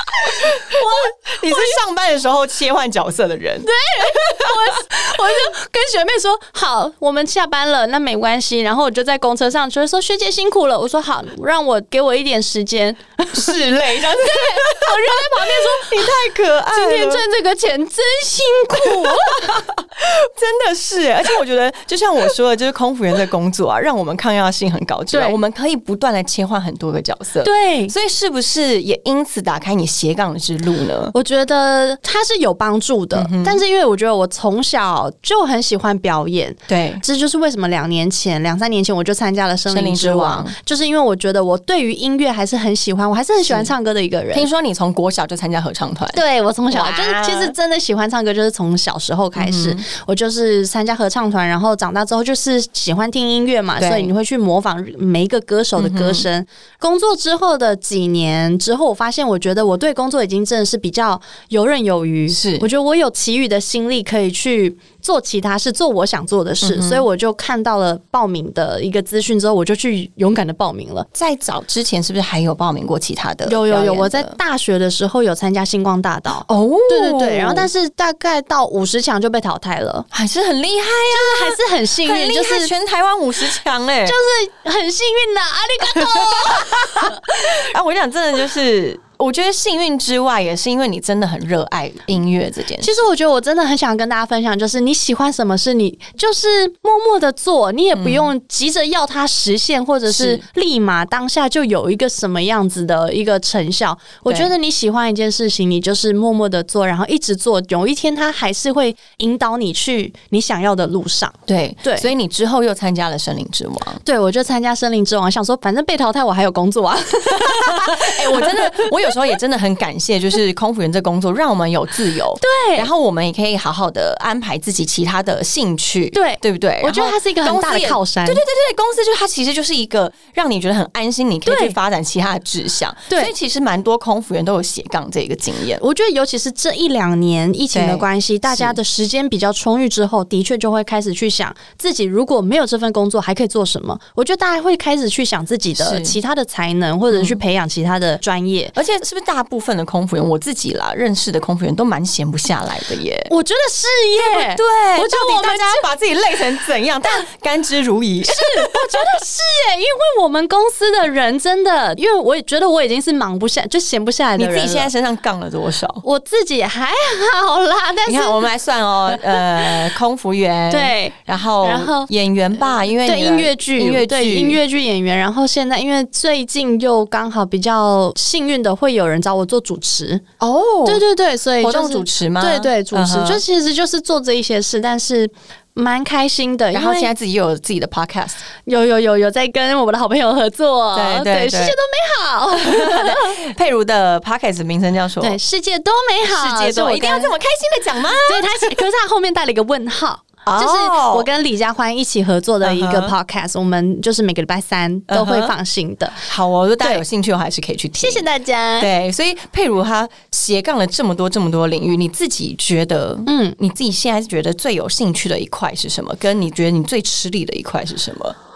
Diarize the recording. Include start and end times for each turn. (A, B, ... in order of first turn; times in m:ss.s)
0:00.2-0:04.6 A
0:00.6-0:01.1 B
0:03.6-0:16.1 B
0:13.3-0:17.2 A
0:16.7-0:19.6 B
0:18.8-0:31.1 A
0:25.1-0:25.4 B
0:27.4-0:27.9 B
0:31.1-0:44.5 B
0:33.1-0:33.6 A
0:36.7-0:37.0 A
0:39.7-0:40.5 A
0:43.4-0:43.7 A
0:44.3-0:47.5 A
0:46.1-1:11.1 B
0:49.4-0:49.8 A
0:53.8-0:54.1 A
0:55.8-0:56.2 A
1:02.3-1:02.6 A
1:06.6-1:07.0 A
1:11.1-1:14.4 A
1:13.4-1:20.1 B
1:16.4-1:17.7 A
1:20.1-1:24.2 A
1:21.1-1:22.7 B
1:24.0-1:27.5 B
1:25.9-1:33.0 A
1:32.8-1:52.1 B
1:38.0-1:38.3 A
1:40.1-1:40.4 A
1:51.5-1:54.0 A
1:54.0-1:58.9 B
1:57.4-2:15.8 A
2:02.4-2:02.9 B
2:06.1-2:08.4 B
2:11.4-2:11.8 B
2:15.8-2:28.7 B
2:17.7-2:18.8 A
2:25.8-2:26.2 A
2:27.1-2:27.4 A
2:28.7-2:33.3 A
2:33.3-2:35.8 B
2:34.2-2:39.2 A
2:38.2-2:44.9 B
2:44.4-2:46.0 A
2:46.0-2:48.5 B
2:48.0-2:54.6 A
2:49.1-2:49.9 B
2:50.7-2:52.1 B
2:53.0-3:00.2 B
3:00.4-3:01.0 A
3:00.8-3:07.1 B
3:01.6-3:03.4 A
3:06.7-3:08.4 A
3:08.6-3:13.4 B
3:10.9-3:11.8 A
3:12.6-3:15.4 A
3:15.2-3:17.3 B
3:16.3-3:18.7 A
3:18.1-3:26.2 B
3:20.4-3:21.3 A
3:22.6-3:23.1 A
3:25.1-3:25.5 A
3:26.2-3:28.3 A
3:26.8-3:27.0 B
3:28.0-3:28.9 B
3:28.8-3:38.4 A
3:33.2-3:33.6 B